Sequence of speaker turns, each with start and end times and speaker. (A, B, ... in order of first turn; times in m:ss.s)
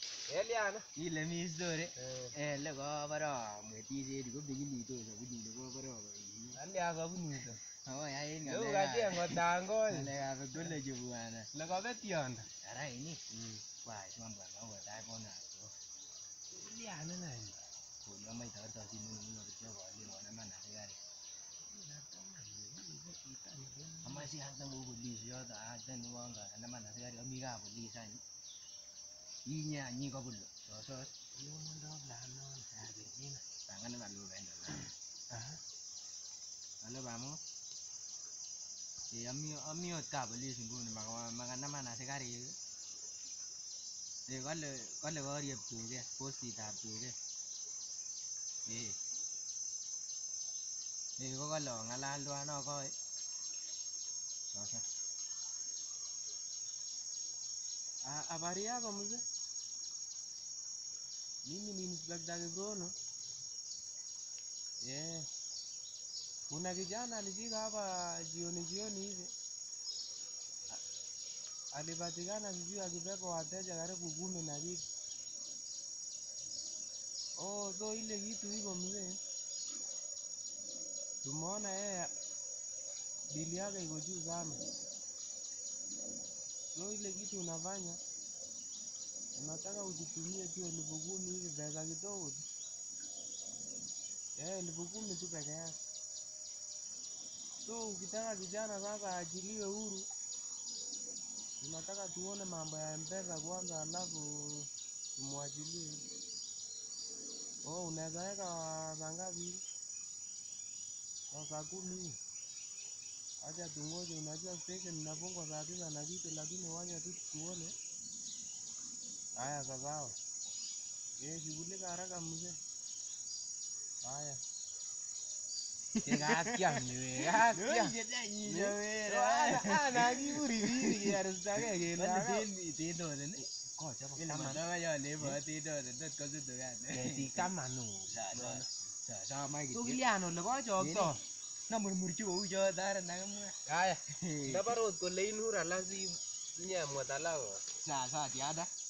0:00.3-0:00.8 A
0:00.9-0:06.6 B
0:02.0-0:02.3 A
0:06.6-0:07.6 A
0:07.8-0:11.5 B
0:08.4-0:10.7 A
0:11.5-0:12.5 A
0:12.6-0:13.2 B
0:13.3-0:13.6 A
0:13.8-0:15.7 B
0:16.5-0:17.6 A
0:18.0-0:21.0 B
0:21.6-0:24.3 A
0:24.0-0:28.2 B
0:29.4-0:31.1 B
0:31.2-0:33.4 A
0:33.6-0:34.9 B
0:35.3-0:35.6 A
0:36.8-0:37.4 B
0:39.1-0:42.6 B
0:44.3-0:47.2 B
0:48.6-0:49.0 B
0:51.2-0:52.9 B
0:54.5-0:54.8 B
0:58.0-0:59.2 A
1:01.4-1:02.9 A
1:04.8-1:05.3 A
1:06.5-1:09.3 A
1:11.7-1:14.8 A
1:17.4-1:19.2 A
1:21.2-1:22.1 A
1:23.3-1:24.6 A
1:26.7-1:28.0 A
1:29.4-1:32.4 A
1:34.4-1:35.8 A
1:37.6-1:40.1 A
1:41.6-1:46.0 A
1:47.6-1:49.6 A
1:51.3-1:52.2 A
1:53.4-1:57.8 A
1:59.4-2:00.2 A
2:01.2-2:02.6 A
2:04.0-2:04.4 A
2:06.0-2:11.2 B
2:06.0-2:07.9 A
2:08.4-2:12.5 A
2:11.8-2:13.5 B
2:13.6-2:14.6 A
2:14.2-2:17.5 B
2:16.9-2:18.7 A
2:18.1-2:20.0 B
2:19.7-2:21.2 A
2:20.8-2:21.2 B
2:21.7-2:23.6 B
2:23.7-2:27.6 A
2:24.1-2:24.8 B
2:27.7-2:28.7 B